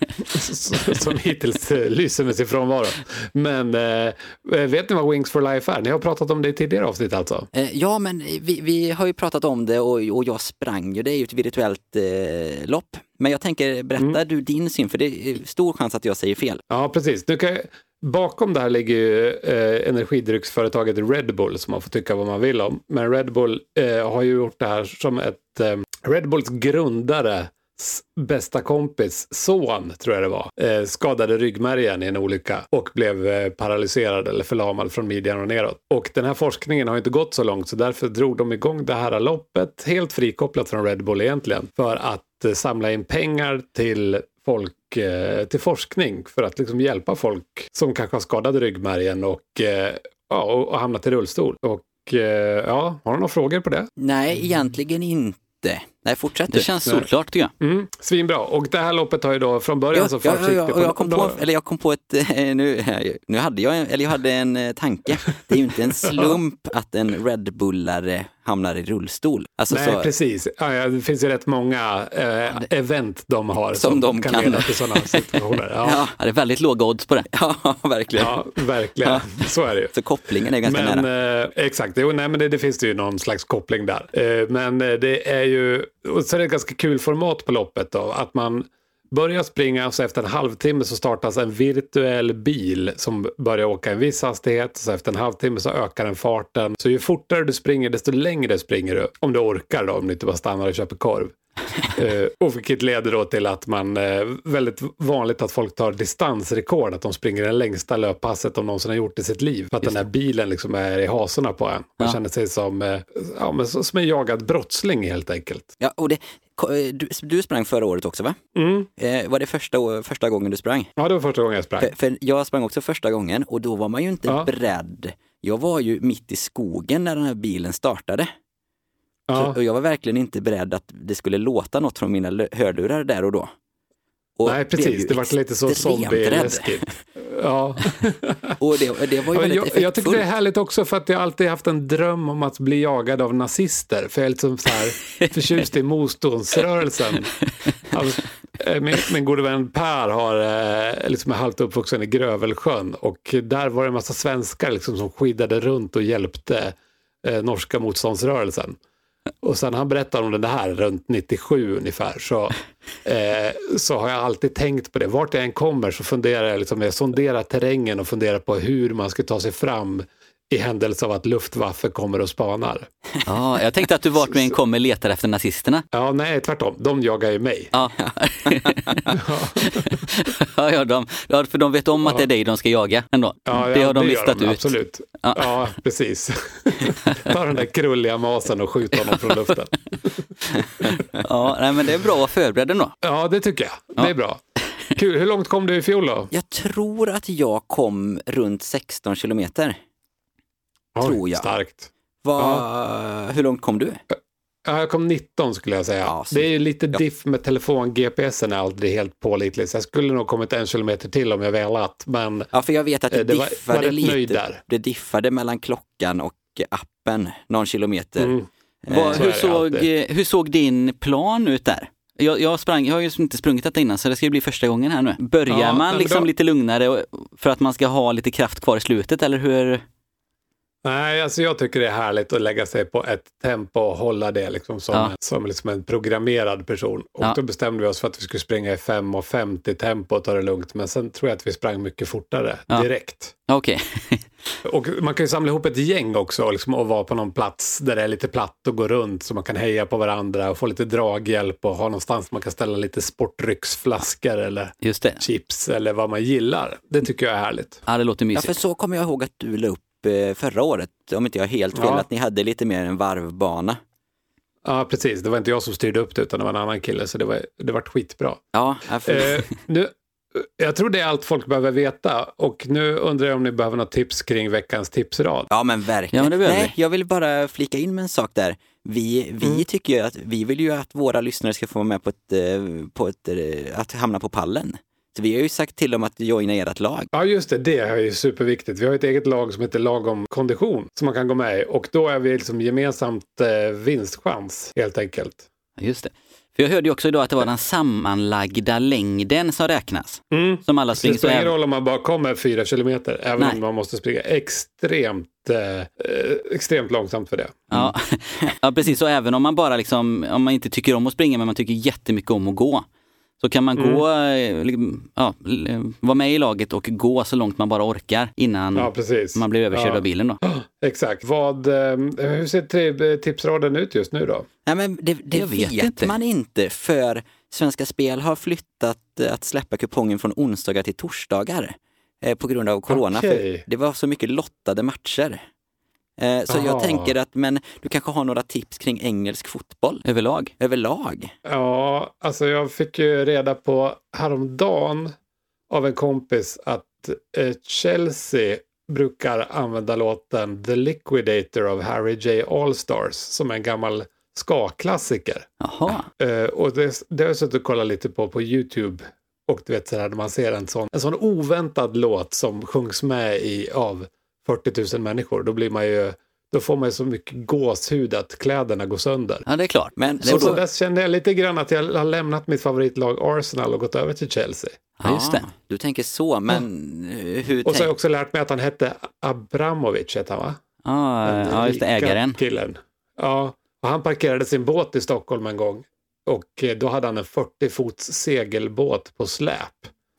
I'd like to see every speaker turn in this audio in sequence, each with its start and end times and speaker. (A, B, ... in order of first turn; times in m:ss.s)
0:00.3-0:07.5 A
0:07.5-0:16.6 B
0:16.7-0:53.9 A
0:54.0-0:56.7 B
0:56.5-0:57.5 C
0:57.6-1:01.4 A
0:59.9-1:10.1 B
1:06.1-1:06.4 A
1:09.7-1:16.0 A
1:13.8-1:15.2 B
1:15.8-1:16.1 B
1:16.2-1:17.3 C
1:17.3-1:18.4 B
1:18.2-1:19.9 A
1:19.0-1:19.3 B
1:19.9-1:21.0 B
1:20.6-1:41.3 A
1:41.9-1:55.7 A
1:55.8-1:58.4 B
1:58.6-1:58.9 A
1:59.0-2:00.9 B
2:01.0-2:01.9 A
2:01.8-2:08.3 B
2:09.3-2:09.6 A
2:09.3-2:13.5 B
2:14.4-2:16.7 B
2:14.4-2:18.6 A
2:18.6-2:20.2 B
2:19.3-2:27.3 A
2:27.9-2:38.8 A
2:39.4-2:52.9 A
2:53.3-2:55.8 C
2:55.9-2:57.7 A
2:57.7-2:59.0 C
2:58.5-2:59.0 B
2:59.1-3:00.0 A
2:59.6-3:05.6 C
3:03.5-3:09.7 A
3:10.8-3:12.9 C
3:13.0-3:14.4 A
3:14.9-3:16.3 A
3:16.3-3:19.8 B
3:20.9-3:22.6 A
3:21.0-3:21.5 B
3:22.2-3:24.0 B
3:24.1-3:32.5 A
3:26.0-3:27.0 B
3:32.5-3:39.2 B
3:33.1-3:34.6 A
3:38.2-3:39.9 A
3:38.9-3:49.8 C
3:45.5-3:46.3 A
3:50.8-4:03.3 A
4:03.5-4:04.2 C
4:04.6-4:17.8 A
4:14.8-4:15.2 C
4:17.9-4:18.5 C
4:18.3-4:23.8 B
4:21.7-4:22.0 A
4:24.6-4:28.4 A
4:28.5-4:29.5 B
4:29.0-4:35.5 A
4:35.5-4:47.1 B
4:36.1-4:36.7 C
4:47.1-4:55.4 A
4:55.8-5:01.5 C
5:00.3-5:07.9 A
5:07.7-5:12.8 C
5:13.4-5:20.4 C
5:13.8-5:14.0 A
5:18.7-5:24.5 A
5:24.6-5:35.4 B
5:25.3-5:26.1 C
5:32.9-5:33.6 A
5:36.2-5:40.0 B
5:36.5-5:37.1 A
5:40.0-5:40.5 C
5:40.6-5:41.3 B
5:41.4-5:45.1 A
5:45.7-5:55.5 A
5:55.6-5:56.1 C
5:56.2-6:09.4 A
6:09.5-6:10.6 C
6:10.0-6:10.6 B
6:10.2-6:14.8 A
6:15.0-6:15.4 C
6:15.0-6:17.9 B
6:17.6-6:20.6 A
6:20.8-6:22.4 C
6:21.2-6:29.9 A